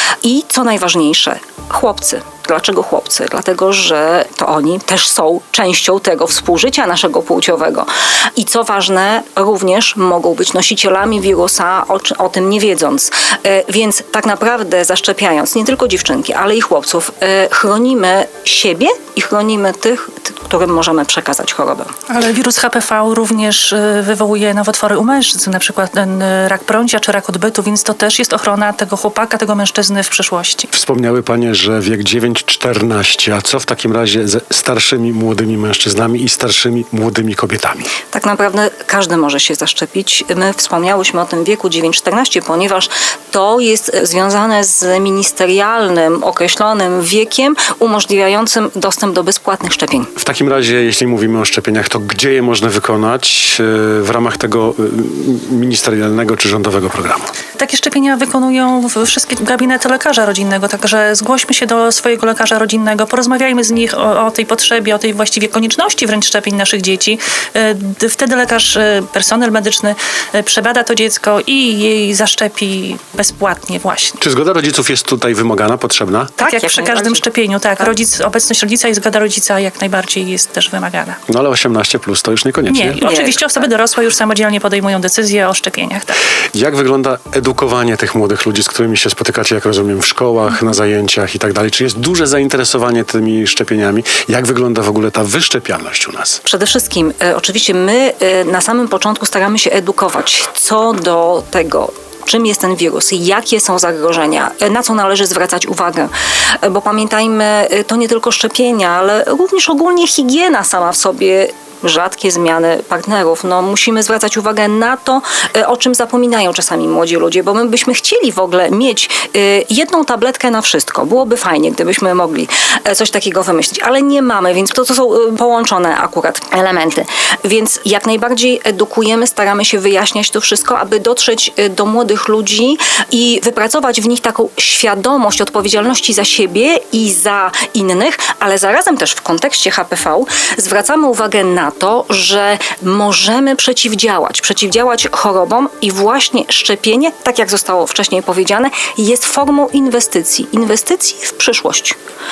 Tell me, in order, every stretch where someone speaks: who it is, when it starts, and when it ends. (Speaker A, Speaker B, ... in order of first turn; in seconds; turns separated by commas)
Speaker A: 0.2-21.9, Speaker B: 22.1-30.7, Speaker C: 30.7-37.9, Speaker A: 38.1-50.1, Speaker C: 50.2-57.3, Speaker B: 57.6-74.2, Speaker C: 74.2-76.4, Speaker A: 76.4-77.2, Speaker B: 76.4-81.2, Speaker C: 81.3-83.0, Speaker B: 82.7-86.2, Speaker A: 83.0-83.7, Speaker C: 86.5-96.4, Speaker A: 96.5-106.1, Speaker A: 106.6-152.0